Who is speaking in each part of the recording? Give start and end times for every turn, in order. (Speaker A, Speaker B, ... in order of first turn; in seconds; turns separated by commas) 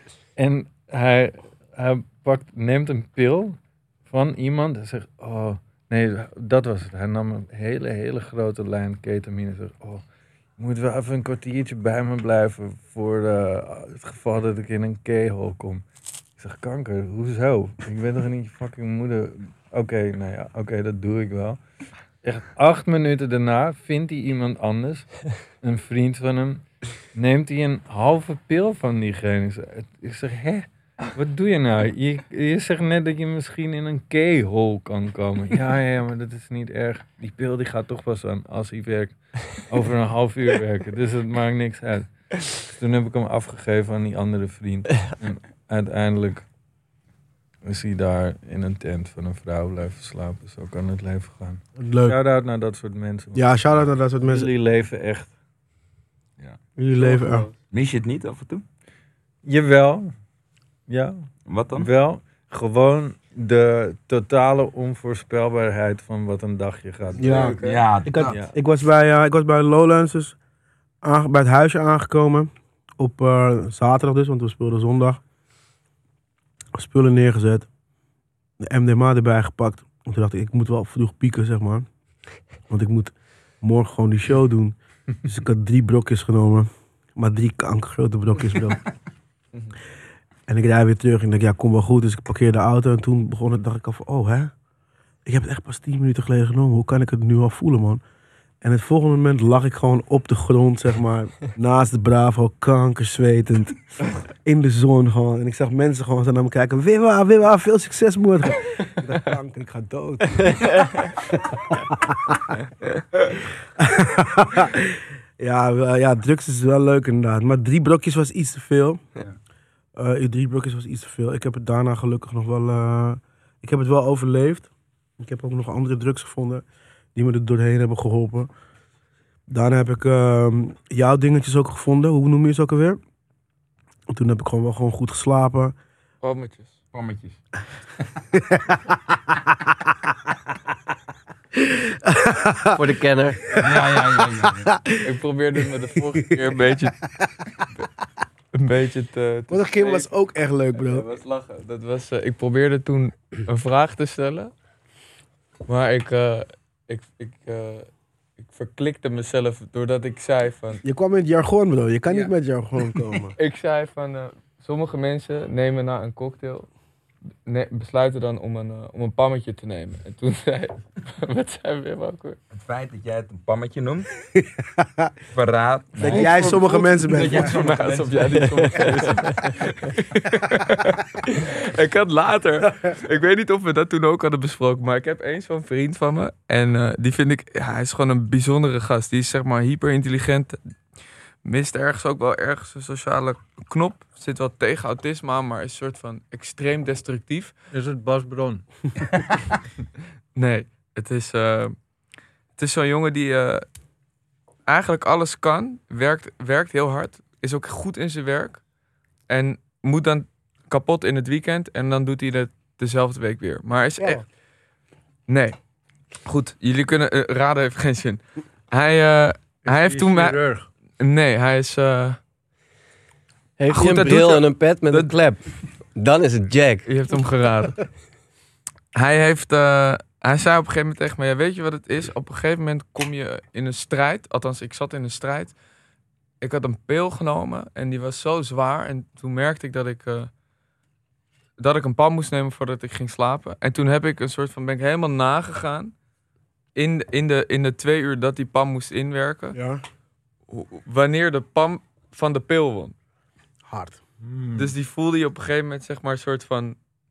Speaker A: 0.3-10.0, Speaker A: 10.6-15.8, Speaker A: 16.4-21.6, Speaker A: 22.2-25.1, Speaker A: 25.6-46.5, Speaker A: 47.6-53.5, Speaker B: 51.8-52.2, Speaker B: 53.3-54.5, Speaker A: 54.2-55.3, Speaker B: 56.8-57.5, Speaker C: 57.0-57.5, Speaker D: 57.7-58.6, Speaker A: 59.4-60.1, Speaker A: 60.9-67.5, Speaker D: 61.5-61.9, Speaker C: 67.2-67.8, Speaker B: 67.2-70.3, Speaker D: 67.6-68.4, Speaker A: 68.2-68.5, Speaker B: 71.0-75.2, Speaker B: 76.7-77.7, Speaker B: 78.6-81.8, Speaker B: 82.7-88.8, Speaker B: 90.5-94.5, Speaker B: 95.2-98.0, Speaker B: 98.6-103.8, Speaker B: 104.4-112.4, Speaker B: 113.2-119.0, Speaker B: 120.0-126.6, Speaker B: 127.1-128.5, Speaker B: 129.5-133.0, Speaker B: 134.1-135.7, Speaker C: 136.2-136.8, Speaker D: 136.9-137.4, Speaker B: 141.6-142.8, Speaker E: 142.7-143.4, Speaker B: 143.5-144.9, Speaker D: 143.6-144.7, Speaker C: 145.0-146.9, Speaker C: 148.5-150.1, Speaker B: 149.5-151.1, Speaker C: 150.7-154.5, Speaker C: 155.7-157.9, Speaker C: 158.4-160.8, Speaker B: 160.8-163.3, Speaker C: 163.4-166.7, Speaker C: 167.4-172.4, Speaker D: 172.5-174.1, Speaker B: 174.6-175.1, Speaker D: 175.3-179.1, Speaker B: 176.0-177.5, Speaker C: 176.0-190.6, Speaker E: 178.6-179.0, Speaker C: 191.4-197.5, Speaker A: 197.7-198.6, Speaker C: 200.3-201.7, Speaker C: 202.6-203.6, Speaker C: 204.7-208.6, Speaker C: 209.3-214.2, Speaker C: 215.3-215.6, Speaker C: 216.2-220.4, Speaker A: 219.7-220.7, Speaker C: 221.0-222.2, Speaker E: 223.6-225.4, Speaker C: 223.7-225.1, Speaker E: 225.9-226.9, Speaker C: 226.8-227.8, Speaker C: 228.9-235.5, Speaker C: 236.4-240.3, Speaker C: 241.6-245.9, Speaker C: 246.7-249.6, Speaker B: 249.5-249.8, Speaker C: 250.5-252.9, Speaker B: 253.7-254.0, Speaker A: 254.2-254.7, Speaker C: 254.6-256.8